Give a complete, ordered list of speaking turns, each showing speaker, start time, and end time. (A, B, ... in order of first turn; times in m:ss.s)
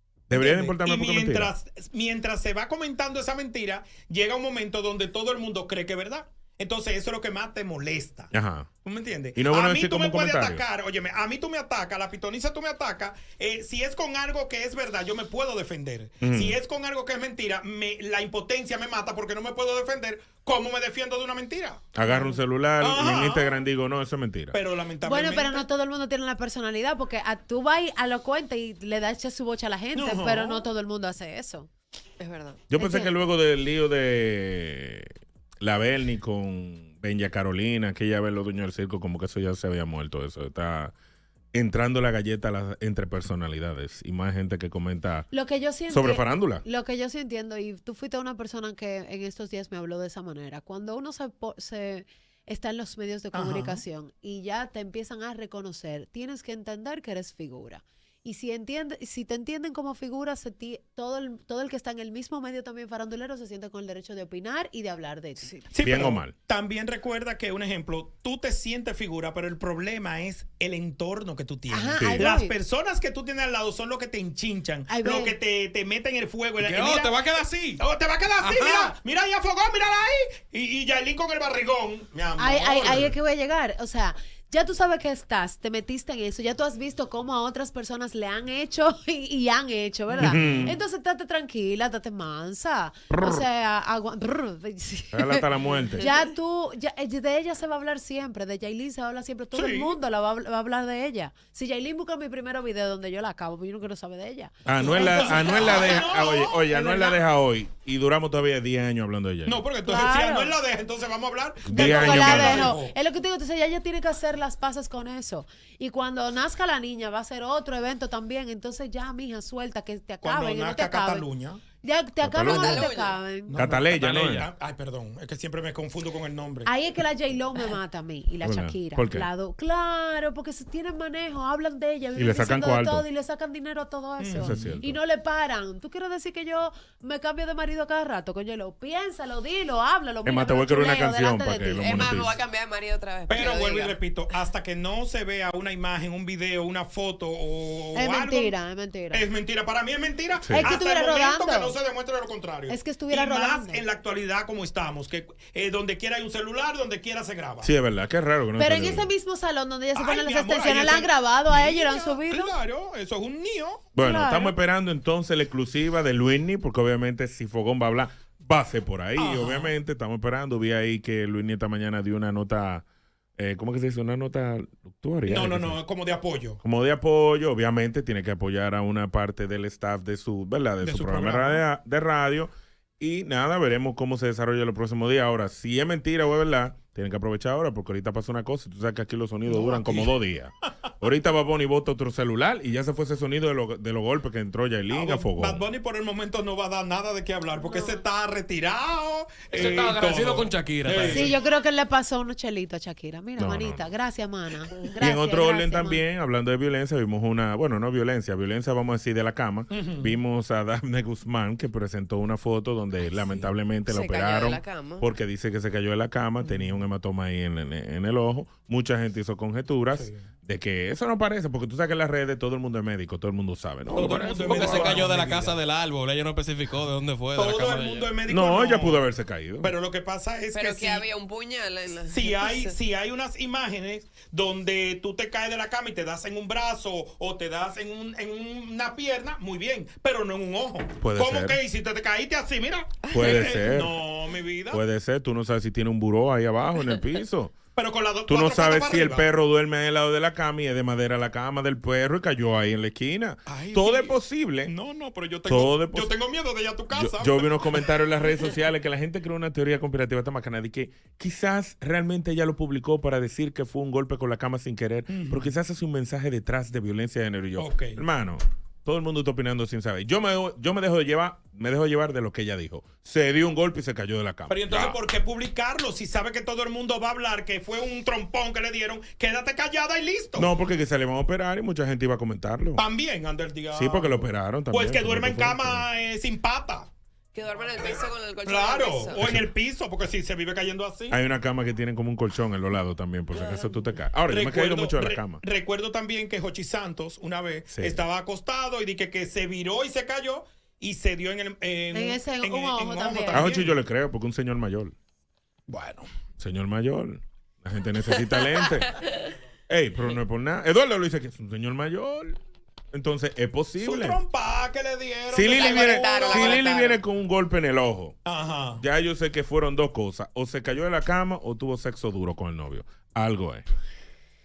0:00.3-0:01.5 A
0:00.3-0:08.3 B
0:08.3-0:08.7 A
0:08.8-0:22.1 B
0:09.4-0:10.6 A
0:16.2-0:16.6 A
0:22.0-0:24.6 A
0:22.8-0:23.5 B
0:24.5-0:25.7 B
0:25.0-0:31.7 C
0:29.9-0:30.7 B
0:32.2-0:32.6 D
0:32.7-0:40.9 A
0:32.8-0:33.2 C
0:41.5-0:45.3 A
0:45.3-1:05.6 C
0:45.9-0:46.6 A
0:53.3-0:53.8 B
1:05.7-1:23.1 B
1:05.8-1:06.3 A
1:11.7-1:12.5 C
1:12.0-1:12.3 A
1:14.9-1:15.4 C
1:16.6-1:17.8 E
1:18.4-1:18.9 E
1:22.4-1:35.5 C
1:30.2-1:30.8 A
1:30.3-1:30.6 B
1:33.1-1:33.4 A
1:35.1-1:36.1 A
1:36.0-1:46.0 C
1:39.5-1:40.0 B
1:44.7-1:49.6 A
1:44.8-1:47.1 B
1:49.5-1:53.0 B
1:49.8-1:50.6 C
1:51.7-1:52.8 A
1:51.7-2:01.3 C
2:00.2-2:01.6 B
2:01.8-2:03.7 C
2:02.2-2:02.9 A
2:02.4-2:03.2 D
2:03.5-2:06.7 B
2:03.5-2:04.5 A
2:06.6-2:22.2 C
2:08.4-2:09.3 A
2:12.2-2:13.1 A
2:14.2-2:14.7 B
2:14.4-2:15.0 A
2:20.2-2:22.4 A
2:21.8-2:24.0 D
2:23.3-2:28.5 B
2:28.0-2:29.2 C
2:29.1-2:37.7 B
2:30.4-2:30.7 A
2:30.5-2:31.8 C
2:32.7-2:33.8 C
2:37.6-2:39.1 A
2:38.6-2:42.5 C
2:40.0-2:43.9 B
2:44.0-2:52.8 A
2:44.0-2:44.6 C
2:49.2-2:49.7 B
2:53.4-2:55.8 A
2:55.3-2:56.6 B
2:56.6-3:15.6 A
3:00.8-3:01.6 B
3:09.5-3:10.1 B
3:14.9-3:21.3 B
3:19.5-3:21.3 E
3:21.0-3:26.0 C
3:23.4-3:23.9 A
3:25.0-3:45.1 A
3:29.7-3:30.2 B
3:33.9-3:35.1 D
3:36.4-3:36.8 B
3:39.9-3:40.2 B
3:44.0-3:48.2 E
3:44.0-3:45.6 B
3:47.4-3:49.0 B
3:48.3-3:49.7 A
3:49.6-3:51.1 B
3:50.5-3:52.8 D
3:52.1-4:04.8 B
4:01.0-4:01.6 A
4:03.0-4:03.8 D
4:03.1-4:04.0 A
4:04.7-4:07.6 A
4:07.8-4:09.3 B
4:08.3-4:14.7 A
4:13.5-4:17.6 B
4:15.5-4:16.1 A
4:16.9-4:35.0 A
4:25.1-4:25.5 B
4:27.6-4:28.0 B
4:34.5-4:40.5 B
4:40.4-4:42.8 A
4:42.8-4:46.9 B
4:43.7-4:45.8 A
4:47.3-4:49.3 D
4:48.4-4:51.2 B
4:49.2-4:49.4 A
4:51.1-4:55.4 A
4:53.3-4:53.8 D
4:54.3-5:03.8 B
4:57.7-4:58.0 A
5:01.9-5:03.6 C
5:03.3-5:05.0 A
5:05.7-5:06.1 B
5:06.4-5:09.0 A
5:08.3-5:09.2 D
5:09.7-5:12.4 A
5:12.9-5:14.2 A
5:13.8-5:16.7 B
5:15.3-5:18.2 A
5:15.5-5:17.0 D
5:18.2-5:18.8 B
5:18.8-5:23.6 A